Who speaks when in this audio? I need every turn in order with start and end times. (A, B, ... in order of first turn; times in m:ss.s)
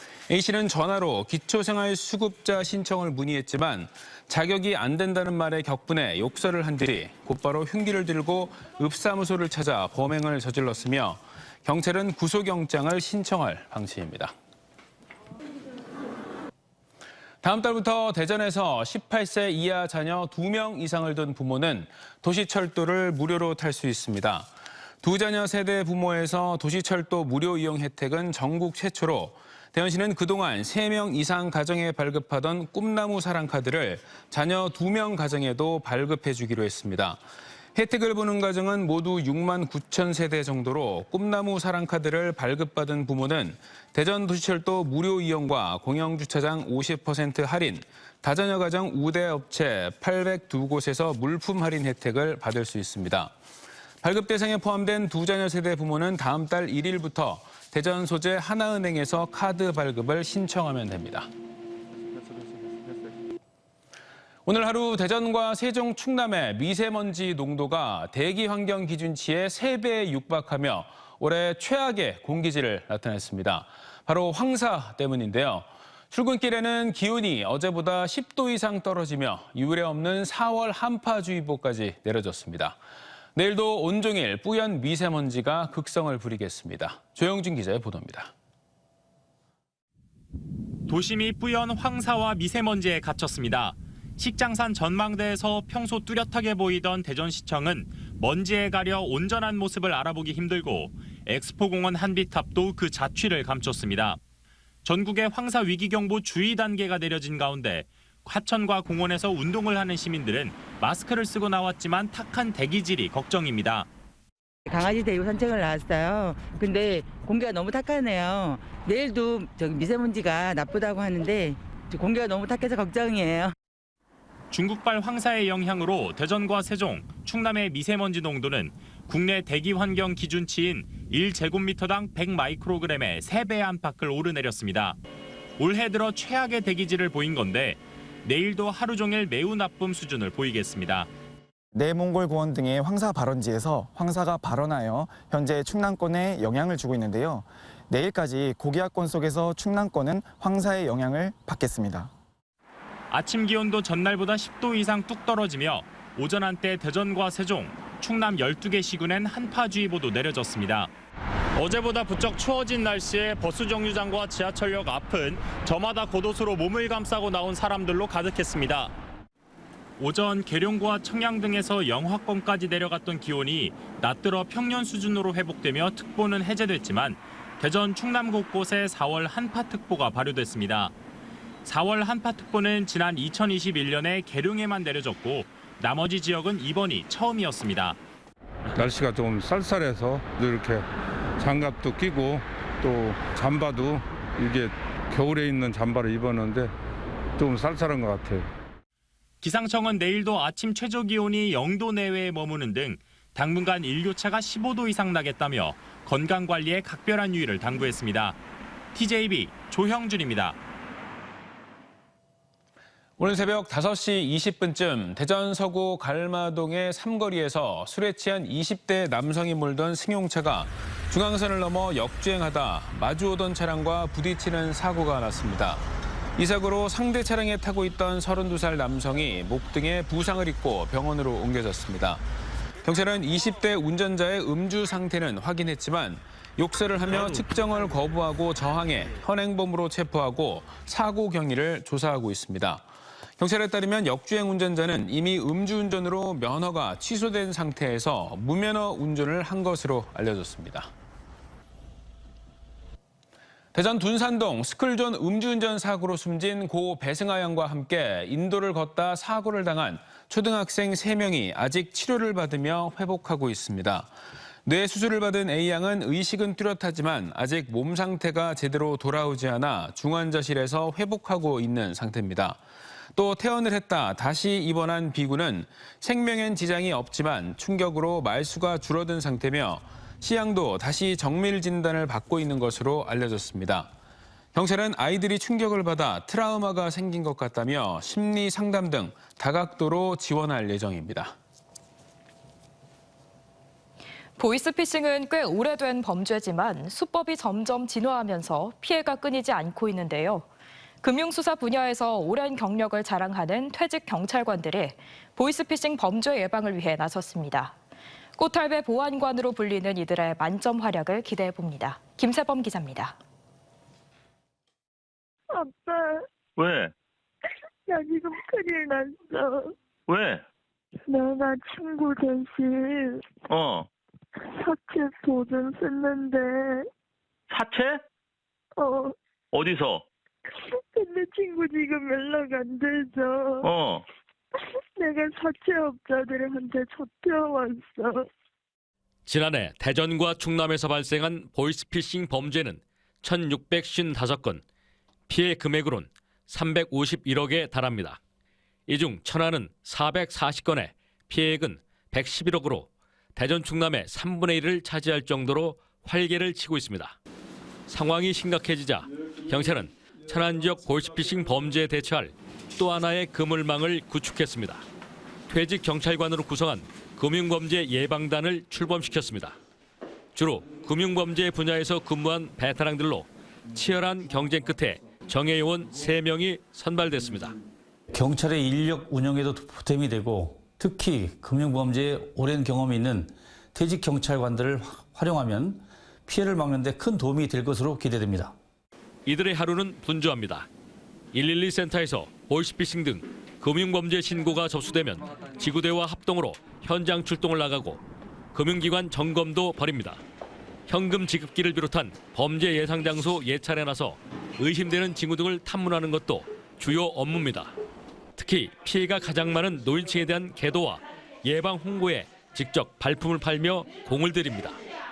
0:00.3-0:14.3 A
0:17.4-0:24.5 A
0:25.0-0:37.2 A
0:37.7-0:53.3 A
0:54.0-1:01.3 A
1:04.4-1:22.8 A
1:23.3-1:28.3 A
1:30.9-1:44.2 B
1:44.8-1:53.9 B
1:54.7-2:03.5 C
2:04.5-2:15.0 B
2:15.6-2:21.1 B
2:21.8-2:32.1 D
2:33.1-2:40.9 B
2:41.5-2:48.9 B
2:50.0-3:00.9 B
3:01.6-3:08.0 B
3:08.7-3:10.8 E
3:11.4-3:16.7 E
3:17.4-3:18.5 E
3:19.4-3:28.4 B
3:28.9-3:30.6 B
3:33.2-3:45.8 A
3:46.4-3:52.2 A
3:52.8-4:02.8 A
4:03.4-4:10.9 A
4:13.7-4:24.1 A
4:24.6-4:32.6 A
4:33.2-4:43.9 A
4:44.5-4:51.3 A
4:54.4-5:00.4 F
5:01.0-5:07.8 F
5:08.4-5:13.2 F
5:15.7-5:16.1 G
5:16.6-5:16.9 H
5:17.9-5:19.6 G
5:20.1-5:20.4 H
5:21.1-5:23.1 G
5:23.5-5:23.9 H
5:24.6-5:26.8 G
5:27.5-5:28.0 H
5:29.5-5:30.0 H
5:31.0-5:33.4 G
5:33.6-5:34.0 H
5:35.0-5:38.2 G
5:39.2-5:44.6 I
5:45.3-5:48.2 I
5:48.9-5:57.2 I
5:57.9-6:04.8 I
6:05.5-6:09.6 I
6:10.3-6:17.6 I
6:18.1-6:28.6 J
6:29.2-6:30.7 I
6:31.3-6:38.0 I
6:38.5-6:40.2 I
6:40.9-6:47.7 I
6:48.4-6:54.8 I